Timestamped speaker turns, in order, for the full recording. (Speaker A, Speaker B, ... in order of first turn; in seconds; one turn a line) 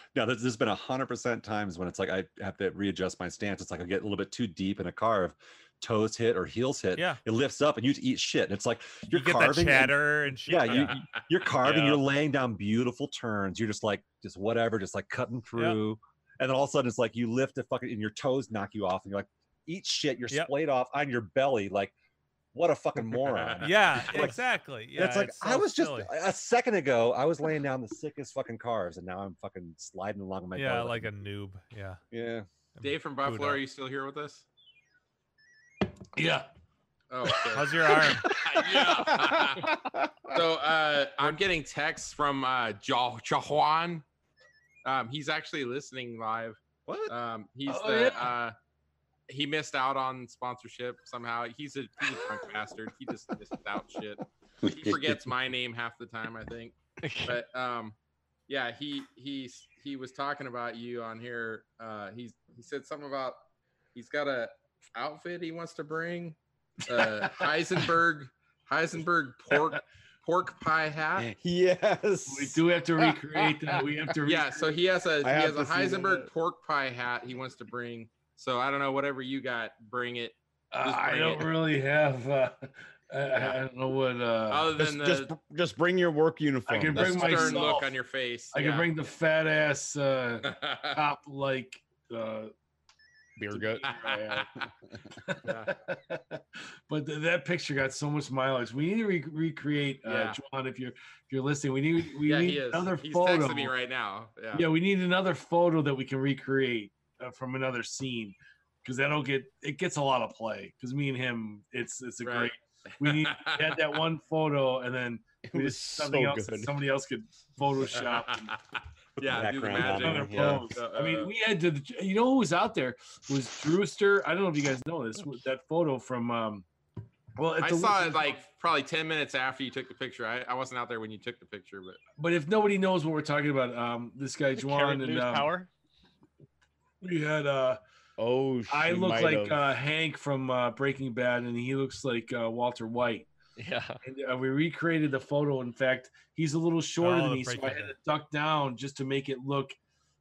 Speaker A: 0.1-21.9
Speaker B: 9.1-11.0
Speaker A: 22.5-31.3
Speaker C: 23.2-24.3
Speaker B: 23.6-26.1
Speaker B: 30.5-32.0
Speaker A: 32.1-32.5
Speaker B: 32.8-33.6
Speaker C: 32.8-34.5
Speaker D: 36.1-36.5
Speaker C: 37.1-39.8
Speaker B: 37.5-38.4
Speaker E: 39.1-39.6
Speaker C: 40.3-44.0
Speaker C: 44.8-48.5
Speaker A: 46.9-47.1
Speaker D: 47.6-48.4
Speaker C: 49.3-58.0
Speaker F: 57.0-57.4
Speaker C: 58.5-63.4
Speaker C: 63.9-71.3
Speaker D: 67.4-67.9
Speaker E: 71.2-73.8
Speaker D: 72.3-74.8
Speaker C: 74.2-81.6
Speaker E: 75.2-76.3
Speaker D: 80.7-84.8
Speaker C: 84.5-85.3
Speaker E: 84.8-87.7
Speaker D: 86.7-88.0
Speaker C: 86.9-88.9
Speaker D: 88.5-92.5
Speaker C: 90.4-91.0
Speaker E: 93.4-94.6
Speaker C: 93.8-94.5
Speaker D: 95.2-103.7
Speaker C: 95.4-95.8
Speaker C: 100.0-100.4
Speaker C: 102.2-104.7
Speaker D: 104.5-118.5
Speaker C: 112.2-113.9
Speaker E: 115.4-116.8
Speaker C: 117.9-118.6
Speaker A: 119.2-120.7
Speaker C: 119.2-121.3
Speaker D: 119.7-126.6
Speaker E: 120.1-120.7
Speaker D: 127.3-128.4
Speaker C: 127.6-132.0
Speaker D: 132.2-135.5
Speaker F: 134.6-135.7
Speaker D: 137.0-137.8
Speaker E: 138.2-139.8
Speaker D: 138.7-143.3
Speaker F: 143.6-144.0
Speaker D: 144.0-149.8
Speaker B: 147.0-147.9